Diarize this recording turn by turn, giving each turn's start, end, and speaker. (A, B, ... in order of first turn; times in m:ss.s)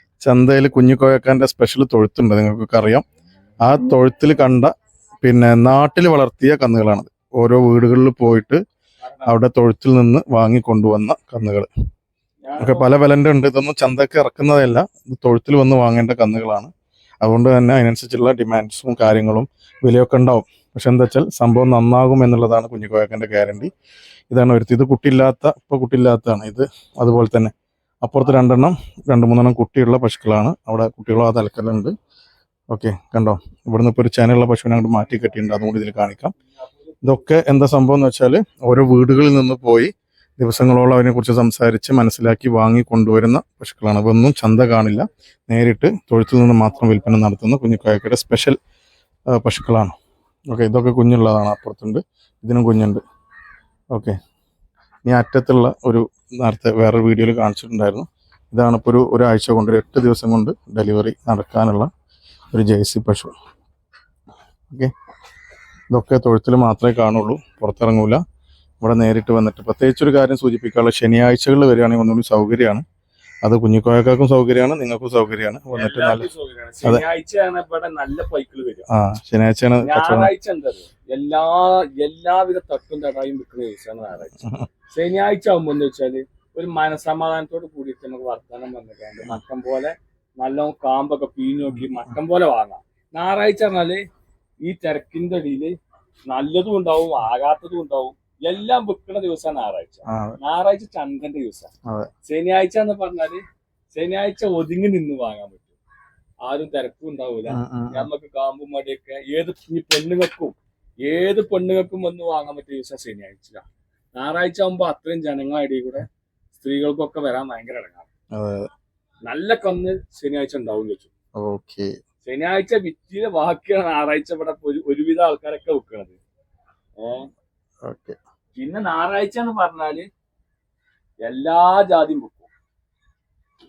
0:00.2-0:03.0 A
0:03.6-0:04.7 A
0:05.2-0:08.6 A
0:09.2-0:11.7 A
0:12.5-0:12.9 B
0:12.6-0:16.7 A
0:17.2-0:23.7 A
0:24.3-0:27.5 A
0:28.0-0:31.9 A
0:32.7-0:36.3 A
0:37.0-0:48.6 A
0:49.3-0:50.0 A
0:50.5-0:53.0 A
0:55.1-1:01.9 A
1:02.5-1:03.3 A
1:05.9-1:08.2 A
1:08.8-1:12.8 A
1:13.4-1:16.3 A
1:15.7-1:18.9 B
1:18.9-1:20.3 A
1:19.8-1:34.0 B
1:34.6-1:35.8 B
1:36.3-1:41.7 B
1:40.1-1:40.4 A
1:42.3-1:43.4 B
1:43.9-1:45.7 B
1:46.5-1:53.6 B
1:47.5-1:48.1 A
1:54.2-1:56.1 B
1:56.6-1:58.1 B
1:58.4-1:58.7 A
1:59.3-2:01.1 B
2:01.4-2:01.9 A
2:02.2-2:06.2 B
2:07.0-2:07.3 B
2:07.9-2:08.2 A
2:08.6-2:10.1 B
2:11.2-2:12.5 B